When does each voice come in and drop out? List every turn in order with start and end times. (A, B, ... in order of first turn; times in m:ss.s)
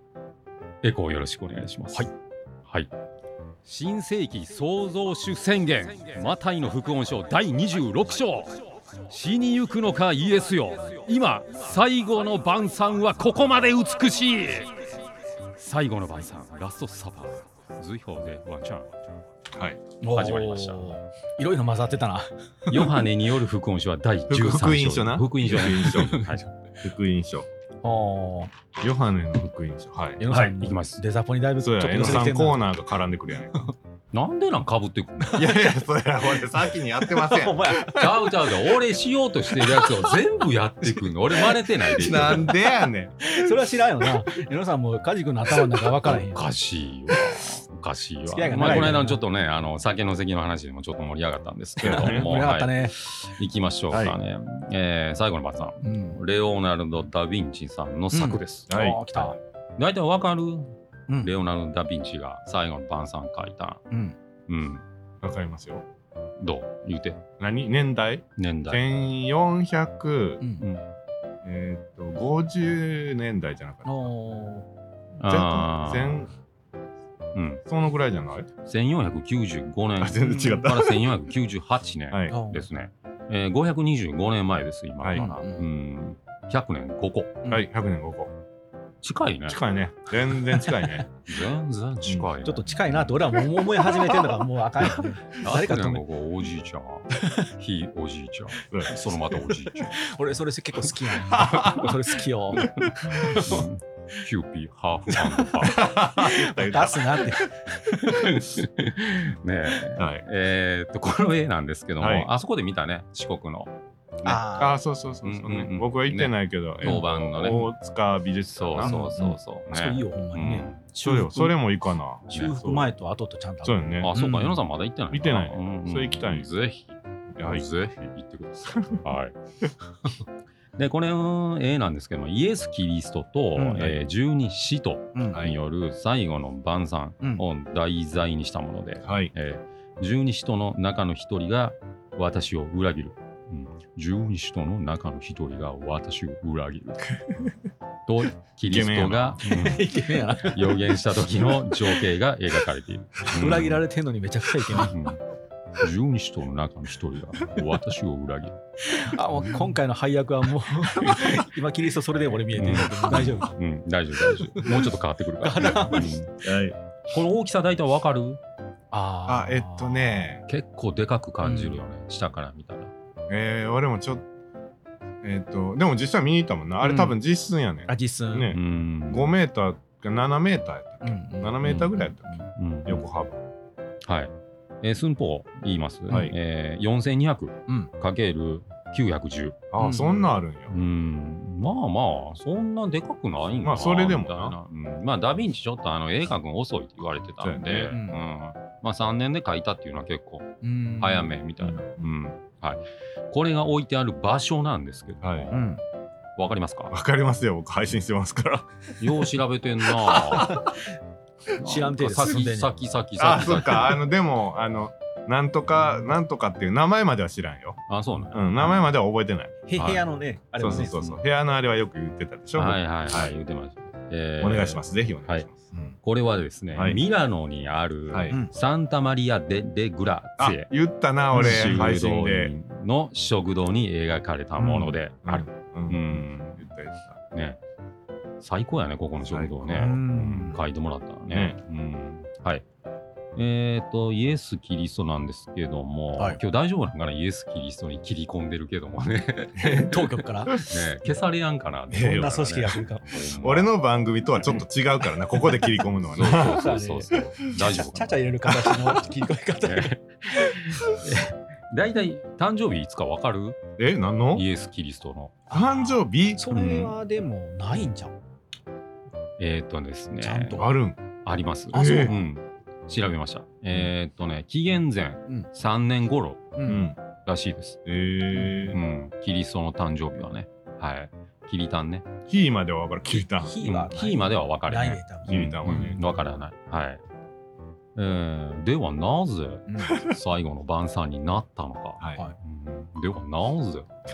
0:00.8-0:02.1 A
0:03.7-0:15.0 A
0:15.6-0:18.9 A
0:20.0-0:22.9 B
0:20.1-0:20.9 A
0:22.7-0:26.4 A
0:24.3-0:26.2 C
0:25.9-0:26.5 B
0:26.8-0:27.5 C
0:27.8-0:28.5 B
0:28.8-0:30.2 C
0:30.2-0:32.6 B
0:30.3-0:31.0 A
0:31.6-0:33.7 C
0:34.1-0:35.6 A
0:35.3-0:37.8 C
0:37.2-0:38.3 B
0:37.9-0:42.6 A
0:40.9-0:42.4 B
0:41.9-0:43.6 C
0:43.2-0:46.4 B
0:46.0-1:03.8 A
0:48.3-0:49.2 B
0:51.8-0:52.3 C
0:51.8-0:53.0 B
0:55.8-0:56.2 B
0:58.1-0:59.4 B
0:58.7-0:59.0 C
1:03.9-1:04.2 B
1:04.5-1:04.8 A
1:05.2-1:05.8 C
1:06.4-1:07.2 A
1:07.4-1:10.4 C
1:08.4-1:08.8 A
1:10.6-1:10.9 A
1:11.4-1:14.1 C
1:13.8-1:14.7 B
1:15.2-1:16.3 A
1:15.3-1:16.3 C
1:17.3-1:17.6 A
1:17.7-1:18.5 C
1:18.6-1:27.4 A
1:20.0-1:21.1 C
1:22.1-1:22.4 C
1:22.3-1:22.7 B
1:25.1-1:25.7 B
1:27.5-1:28.3 C
1:29.0-1:29.6 A
1:29.5-1:31.1 C
1:30.5-1:31.1 B
1:31.3-1:32.9 A
1:32.4-1:36.0 B
1:35.3-1:40.0 A
1:37.1-1:37.5 B
1:38.7-1:39.0 C
1:39.0-1:43.6 B
1:41.3-1:41.9 C
1:42.6-1:43.6 C
1:43.3-1:45.8 A
1:45.1-1:48.2 B
1:45.6-1:47.4 C
1:48.0-1:53.7 A
1:50.0-1:50.2 C
1:52.0-1:52.3 C
1:54.2-1:54.8 B
1:54.6-1:59.4 C
1:55.2-1:57.7 A
1:58.5-2:00.8 A
1:58.8-2:01.6 B
2:01.0-2:02.9 C
2:02.3-2:04.6 B
2:02.3-2:02.6 A
2:03.6-2:04.1 C
2:04.0-2:09.4 A
2:05.1-2:06.5 C
2:07.4-2:07.6 C
2:08.7-2:09.0 C
2:10.8-2:27.1 A
2:13.6-2:14.0 B
2:19.0-2:19.3 C
2:28.1-2:33.8 A
2:28.7-2:29.4 C
2:29.4-2:30.7 B
2:33.3-2:35.0 B
2:34.7-2:35.2 A
2:35.8-2:38.6 A
2:38.8-2:43.6 B
2:42.6-2:46.4 A
2:44.4-2:44.9 B
2:45.4-2:46.2 B
2:46.4-2:46.8 C
2:47.1-2:48.4 A
2:48.9-2:50.2 B
2:49.3-2:50.4 C
2:50.5-2:52.9 A
2:51.4-2:51.8 B
2:53.3-2:54.2 C
2:55.2-3:03.4 C
2:56.8-2:57.2 B
2:57.9-2:58.5 B
2:58.5-2:59.3 A
3:01.0-3:02.4 B
3:01.6-3:02.0 A
3:02.6-3:03.0 A
3:04.1-3:09.6 A
3:06.1-3:06.4 C
3:09.7-3:10.8 C
3:09.8-3:10.2 B
3:10.7-3:25.6 A
3:13.6-3:14.6 C
3:17.4-3:17.9 C
3:17.9-3:18.2 B
3:20.6-3:21.4 B
3:21.6-3:22.1 C
3:25.2-3:25.5 C
3:25.5-3:25.8 B
3:26.4-3:27.0 A
3:26.9-3:29.2 C
3:29.0-3:30.6 A
3:30.0-3:30.5 C
3:30.4-3:30.8 B
3:31.6-3:32.7 B
3:31.6-3:34.0 A
3:33.2-3:37.8 C
3:37.9-3:38.5 A
3:38.3-3:40.0 C
3:39.7-3:41.2 B
3:40.6-3:43.4 C
3:42.6-3:45.5 A
3:44.4-3:45.7 C
3:46.0-3:50.7 A
3:46.7-3:47.0 C
3:48.1-3:48.4 C
3:50.4-3:52.5 C
3:51.3-3:51.8 B
3:51.4-3:56.6 A
3:54.6-3:55.0 B
3:54.7-3:57.2 C
3:57.3-3:57.6 A
3:58.4-4:02.6 A
3:59.3-3:59.9 C
3:59.7-4:00.6 B
4:01.3-4:01.6 C
4:03.4-4:13.7 A
4:09.6-4:09.9 C
4:09.6-4:10.6 B
4:10.5-4:10.8 C
4:11.9-4:12.4 C
4:11.9-4:13.1 B
4:13.4-4:16.7 C
4:16.1-4:18.5 A
4:16.4-4:20.6 B
4:19.6-4:23.6 A
4:23.8-4:24.5 C
4:24.3-4:25.4 A
4:25.5-4:28.2 B
4:25.5-4:26.4 C
4:26.5-4:27.0 A
4:29.4-4:30.7 A
4:30.2-4:30.7 B
4:30.6-4:31.0 C
4:31.2-4:36.6 A
4:31.7-4:32.2 C
4:31.7-4:32.2 B
4:36.6-4:36.9 B
4:36.7-4:37.0 C
4:37.3-4:37.8 A
4:37.9-4:38.8 C
4:38.7-4:42.1 A
4:42.3-4:43.5 C
4:43.1-4:46.0 B
4:43.6-4:47.0 A
4:45.3-4:46.0 C
4:48.0-4:53.9 A
4:49.7-4:50.0 B
4:52.0-4:52.2 C